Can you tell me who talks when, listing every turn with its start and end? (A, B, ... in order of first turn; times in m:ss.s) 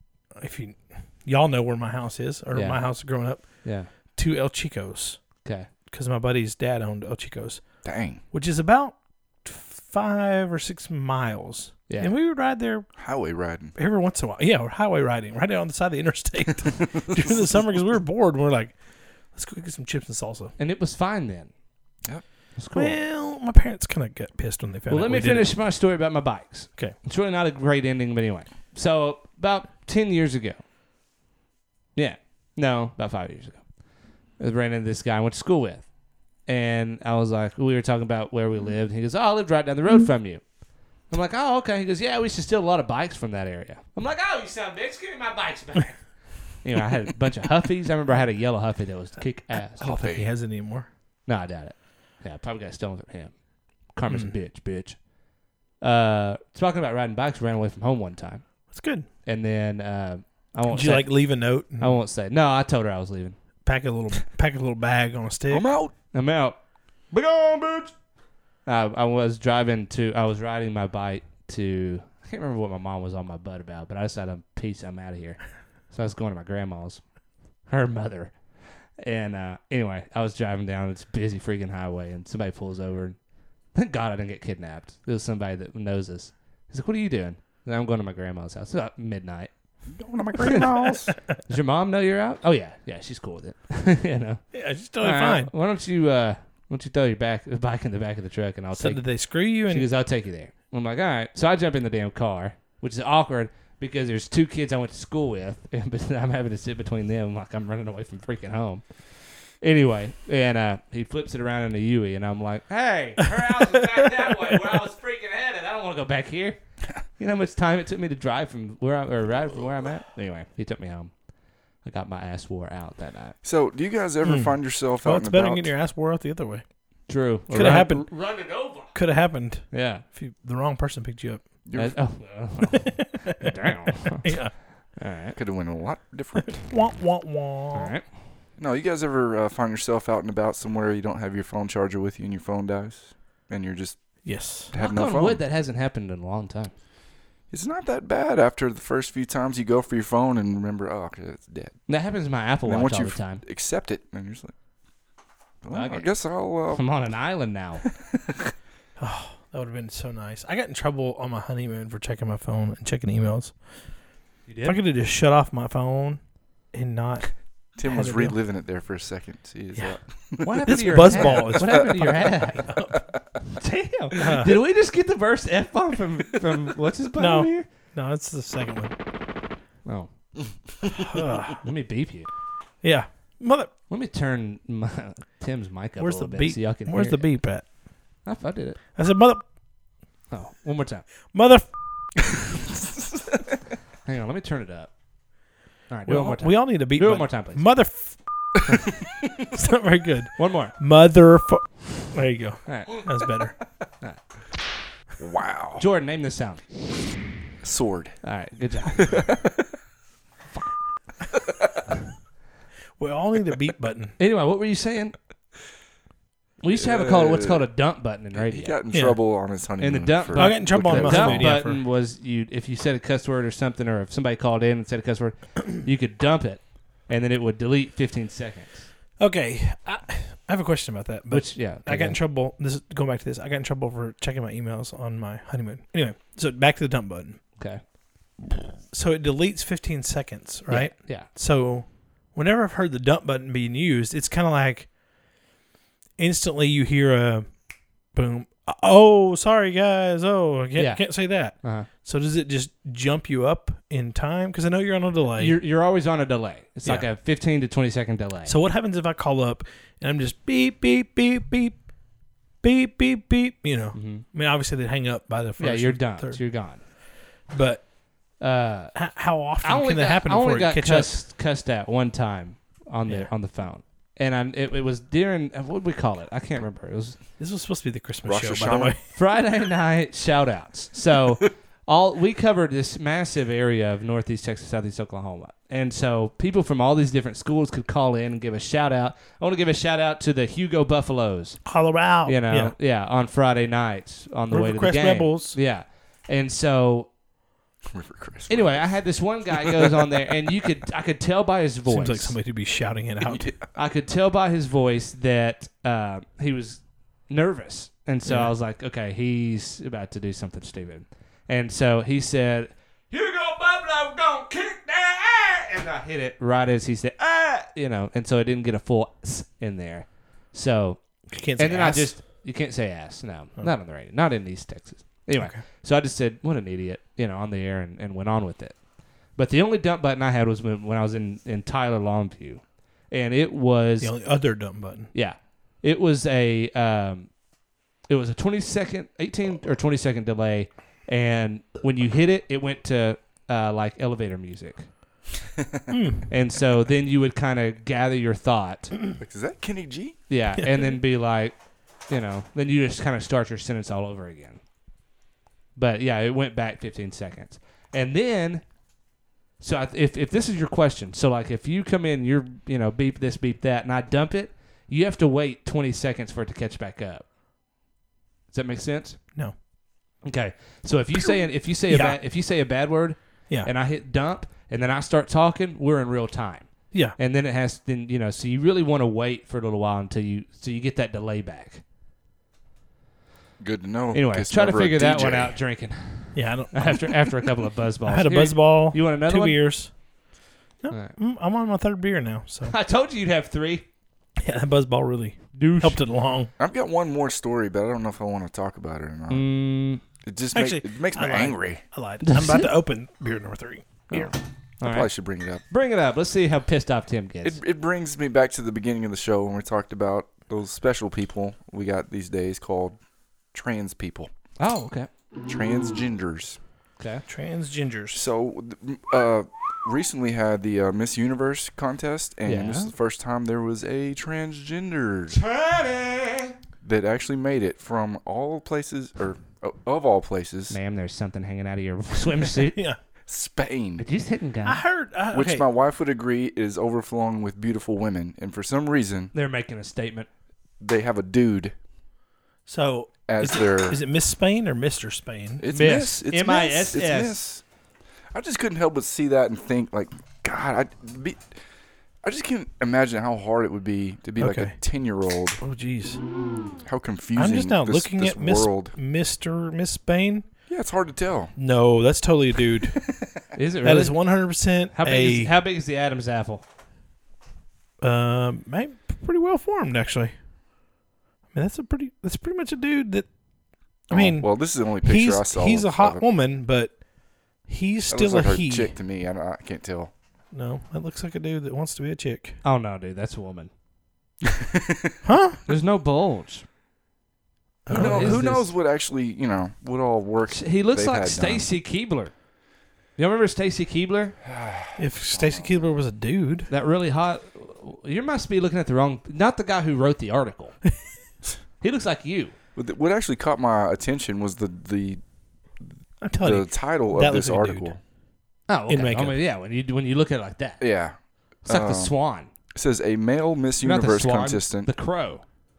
0:00.3-0:05.2 A
0:02.5-0:02.9 B
0:03.6-0:03.9 B
0:05.4-0:05.7 B
0:05.9-0:12.9 A
0:07.8-0:08.2 C
0:11.9-0:12.1 B
0:13.0-0:13.7 C
0:13.8-0:20.5 A
0:20.6-0:21.5 B
0:22.6-0:23.0 B
0:22.7-0:25.5 A
0:24.9-0:30.6 B
0:32.0-0:33.6 B
0:34.4-0:35.9 B
0:36.4-0:40.4 B
0:41.1-0:49.9 B
0:49.8-0:50.3 C
0:49.8-0:50.9 A
0:51.2-0:53.3 B
0:53.9-0:55.0 B
0:54.1-0:54.3 A
0:55.8-0:58.7 B
0:58.7-0:59.1 A
0:59.2-1:03.4 B
1:00.7-1:02.0 A
1:03.6-1:05.6 A
1:05.5-1:05.9 C
1:06.1-1:06.6 B
1:07.1-1:07.9 B
1:08.6-1:15.4 B
1:15.9-1:17.0 B
1:17.7-1:18.4 B
1:19.0-1:23.2 B
1:23.7-1:29.5 B
1:29.9-1:31.1 C
1:31.5-1:34.4 B
1:34.5-1:35.5 A
1:35.0-1:48.8 B
1:38.8-1:39.9 A
1:49.6-1:56.6 B
1:57.2-2:01.1 B
2:01.8-2:03.4 B
2:03.4-2:05.7 C
2:04.2-2:06.6 A
2:07.1-2:08.9 B
2:07.5-2:08.1 A
2:08.9-2:11.4 A
2:09.7-2:10.0 B
2:11.6-2:12.0 C
2:11.7-2:14.3 B
2:12.7-2:13.5 A
2:14.1-2:14.5 A
2:15.0-2:15.4 B
2:15.3-2:16.7 C
2:16.5-2:17.9 A
2:17.7-2:18.0 B
2:18.6-2:24.2 C
2:24.2-2:24.7 A
2:24.7-2:25.4 C
2:24.8-2:26.7 B
2:27.5-2:31.8 C
2:31.9-2:33.4 B
2:32.6-2:34.5 C
2:35.6-2:36.8 C
2:35.7-2:37.9 B
2:39.0-2:43.6 A
2:44.5-2:44.8 B
2:44.6-2:46.2 A
2:46.7-2:47.3 A
2:47.8-2:52.4 C
2:47.8-2:48.3 A
2:50.4-2:52.7 B
2:50.6-2:52.9 A
2:53.5-2:57.6 B
2:54.1-2:54.6 A
2:57.2-2:58.9 A
3:00.9-3:01.6 A
3:01.6-3:02.3 B
3:02.8-3:03.7 A
3:03.9-3:07.2 B
3:06.0-3:07.6 A
3:08.2-3:08.8 B
3:08.9-3:09.4 A
3:10.3-3:11.0 B
3:11.3-3:11.7 A
3:12.8-3:13.4 C
3:14.0-3:14.9 B
3:15.9-3:17.6 B
3:16.1-3:18.6 A
3:19.5-3:23.6 A
3:20.4-3:20.7 B
3:22.7-3:23.0 B
3:25.2-3:25.8 C
3:25.8-3:26.6 B
3:27.6-3:28.2 C
3:28.2-3:29.3 B
3:29.0-3:29.6 C
3:33.0-3:34.2 A
3:34.2-3:35.1 B
3:36.6-3:38.8 B
3:36.7-3:37.7 C
3:38.3-3:41.6 C
3:38.9-3:39.2 A
3:39.8-3:48.9 B
3:40.3-3:41.8 A
3:49.2-3:57.4 A
3:51.3-3:52.2 B
3:58.9-4:04.9 A
4:00.7-4:01.3 B
4:06.2-4:07.5 A
4:08.1-4:15.6 A
4:10.8-4:11.9 B
4:15.4-4:18.6 B
4:18.4-4:21.8 A
4:22.6-4:26.4 A
4:23.9-4:24.2 B
4:25.6-4:26.8 B
4:27.5-4:27.8 A
4:28.4-4:29.0 B
4:28.9-4:31.1 A
4:29.6-4:37.2 B
4:37.4-4:39.0 A
4:38.2-4:39.0 C
4:39.1-4:51.6 B
4:51.6-4:52.7 A
4:52.2-4:57.1 B
4:54.5-4:55.6 A
4:57.9-4:59.9 C
4:58.5-5:02.4 B
5:01.9-5:03.4 A
5:03.2-5:03.7 C
5:03.7-5:28.8 B
5:08.2-5:08.5 A
5:21.3-5:22.1 A
5:29.3-5:34.1 B
5:34.0-5:35.1 A
5:35.1-5:37.3 B
5:38.1-5:44.9 B
5:45.6-5:45.8 C
5:45.9-5:46.3 A
5:46.3-5:48.9 B
5:49.2-5:50.2 C
5:50.3-5:51.5 B
5:50.6-5:50.9 A
5:52.1-5:54.6 B
5:55.8-5:58.6 B
5:59.6-6:07.2 B
6:08.5-6:09.2 B
6:10.2-6:21.8 B
6:11.2-6:12.2 A
6:23.6-6:25.6 C
6:24.1-6:29.6 B
6:26.3-6:27.2 A
6:28.0-6:29.9 A
6:30.8-6:32.7 A
6:30.9-6:31.2 B
6:32.7-6:33.8 B
6:34.4-6:36.5 A
6:35.5-6:36.0 B
6:36.6-6:39.5 C
6:39.3-6:40.0 B
6:40.2-6:41.8 C
6:40.5-6:44.3 A
6:42.2-6:42.7 B
6:44.1-6:45.1 B
6:44.8-6:45.6 C
6:45.7-6:47.6 B
6:47.4-6:53.0 C
6:53.5-6:54.3 C
6:54.6-6:55.1 B
6:55.4-6:56.6 C
6:57.0-6:57.2 B
6:57.3-6:58.2 A
6:58.1-7:05.4 C
7:02.4-7:02.9 B
7:05.3-7:06.5 B
7:06.8-7:10.8 C
7:10.7-7:12.8 B
7:12.6-7:13.0 A
7:13.3-7:14.0 C
7:14.0-7:14.8 B
7:14.6-7:15.6 A
7:15.3-7:19.3 C
7:19.3-7:20.3 B
7:20.8-7:21.7 C
7:22.6-7:25.6 A
7:23.3-7:24.0 C
7:25.6-7:27.6 C
7:25.7-7:27.4 B
7:28.3-7:31.6 C
7:32.2-7:35.6 C
7:34.4-7:34.7 A
7:35.6-7:36.2 A
7:36.8-7:39.0 C
7:37.4-7:40.5 A
7:40.7-7:41.5 C
7:41.6-7:43.0 A
7:42.8-7:43.3 C
7:43.6-7:44.2 B
7:43.8-7:45.5 A
7:44.9-7:46.6 B
7:48.0-7:50.3 A
7:51.5-7:53.3 A
7:54.1-7:57.0 A
7:54.1-7:56.2 C
7:57.6-7:58.9 A
7:58.1-8:00.1 C
8:00.5-8:02.6 A
8:02.6-8:03.7 B
8:04.5-8:05.2 C
8:05.2-8:05.6 A
8:05.7-8:06.6 B
8:07.8-8:08.5 A
8:07.9-8:08.7 B
8:07.9-8:11.7 C
8:10.5-8:12.3 B
8:13.2-8:14.4 B
8:14.4-8:15.8 C
8:15.0-8:16.7 A
8:16.7-8:20.8 B
8:21.8-8:22.5 B
8:22.7-8:25.2 C
8:25.8-8:28.0 C
8:26.2-8:27.9 A
8:28.7-8:30.8 B
8:28.9-8:29.4 A
8:30.8-8:32.1 C
8:31.6-8:32.5 B
8:32.7-8:34.9 C
8:33.8-8:35.4 B